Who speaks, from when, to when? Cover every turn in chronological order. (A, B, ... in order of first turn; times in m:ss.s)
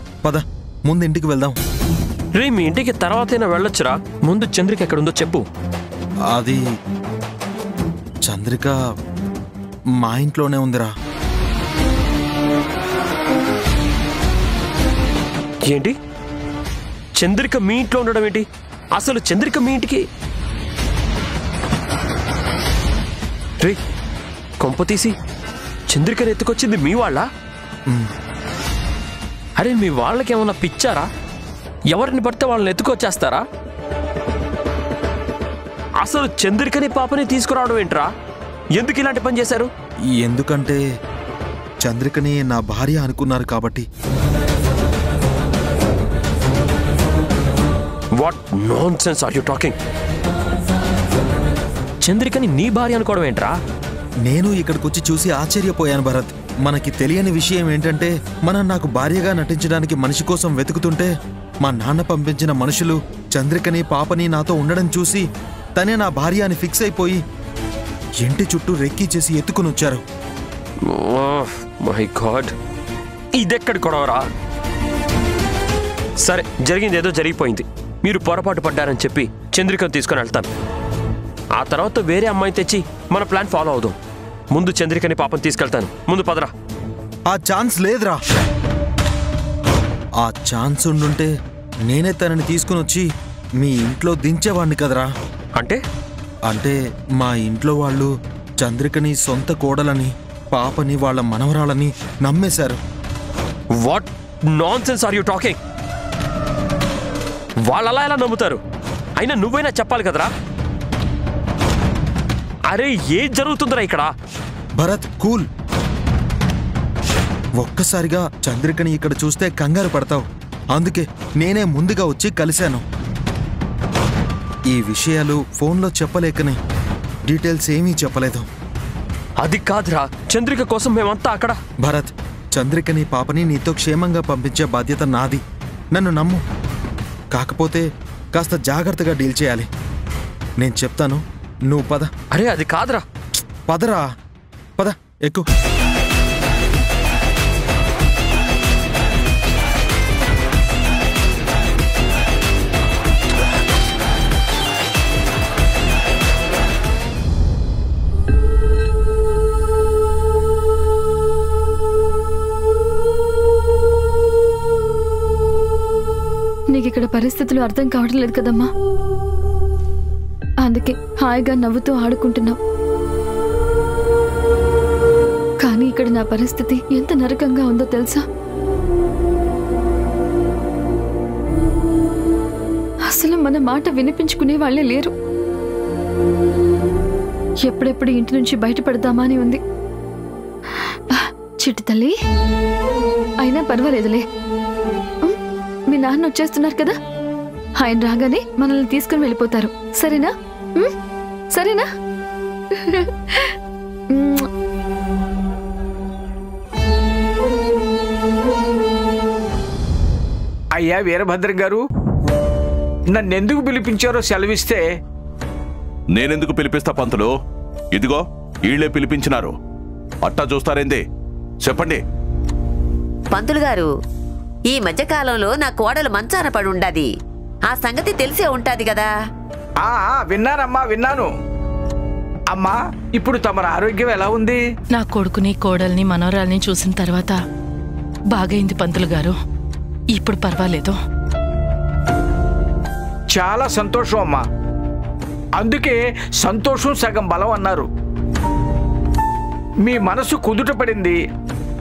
0:00.2-0:01.6 A
0:02.4-0:05.5 B
0:06.3-0:06.6 A
0:08.2-0:08.8 A
0:10.0-0:10.9 A
0:15.7-0:15.9 B
0:17.2-0:20.0 B
0:24.6-0:25.2 B
0:25.9-0:27.3 B
0:29.6-0:31.1 B
0:31.9-0:33.4 B
0:36.0-0:38.1 B
0:38.8-0:39.7 B
0:40.2-0:40.8 A
0:41.8-0:43.9 A
0:48.2-0:49.8 B
0:52.0-0:53.6 B
0:54.2-1:01.1 A
1:01.6-1:07.2 A
1:08.2-1:10.0 A
1:10.8-1:12.5 B
1:13.3-1:14.3 B
1:16.2-1:20.5 B
1:21.6-1:24.0 B
1:24.5-1:26.5 B
1:27.3-1:28.2 A
1:30.2-1:31.3 A
1:31.9-1:33.1 A
1:33.6-1:35.1 A
1:36.5-1:42.8 A
1:43.8-1:45.6 B
1:47.7-1:48.6 B
1:49.2-1:50.3 B
1:52.7-1:54.1 B
1:54.8-1:55.5 A
1:57.6-2:02.8 A
2:04.7-2:06.6 A
2:07.3-2:08.5 A
2:09.4-2:11.6 B
2:11.8-2:15.4 A
2:15.9-2:16.4 A
2:17.3-2:19.7 A
2:20.6-2:22.1 A
2:22.3-2:23.0 B
2:23.7-2:24.1 A
2:24.8-2:25.5 A
2:46.7-2:48.7 C
2:50.6-2:52.6 C
2:55.6-2:58.2 C
3:03.1-3:05.1 C
3:07.6-3:09.6 C
3:10.7-3:12.2 C
3:13.4-3:14.2 C
3:15.9-3:17.0 C
3:17.8-3:20.9 C
3:21.5-3:21.9 C
3:22.7-3:23.5 C
3:24.1-3:24.5 C
3:30.8-3:31.8 D
3:33.1-3:34.8 D
3:36.1-3:37.3 E
3:37.9-3:39.5 E
3:40.2-3:41.0 E
3:41.6-3:42.0 E
3:43.3-3:43.9 F
3:44.7-3:47.1 F
3:47.7-3:49.1 F
3:49.8-3:51.3 D
3:52.5-3:54.6 D
3:54.9-3:57.4 G
3:58.3-3:59.4 G
4:00.1-4:01.0 G
4:03.3-4:04.4 D
4:05.6-4:07.9 D
4:09.8-4:11.2 D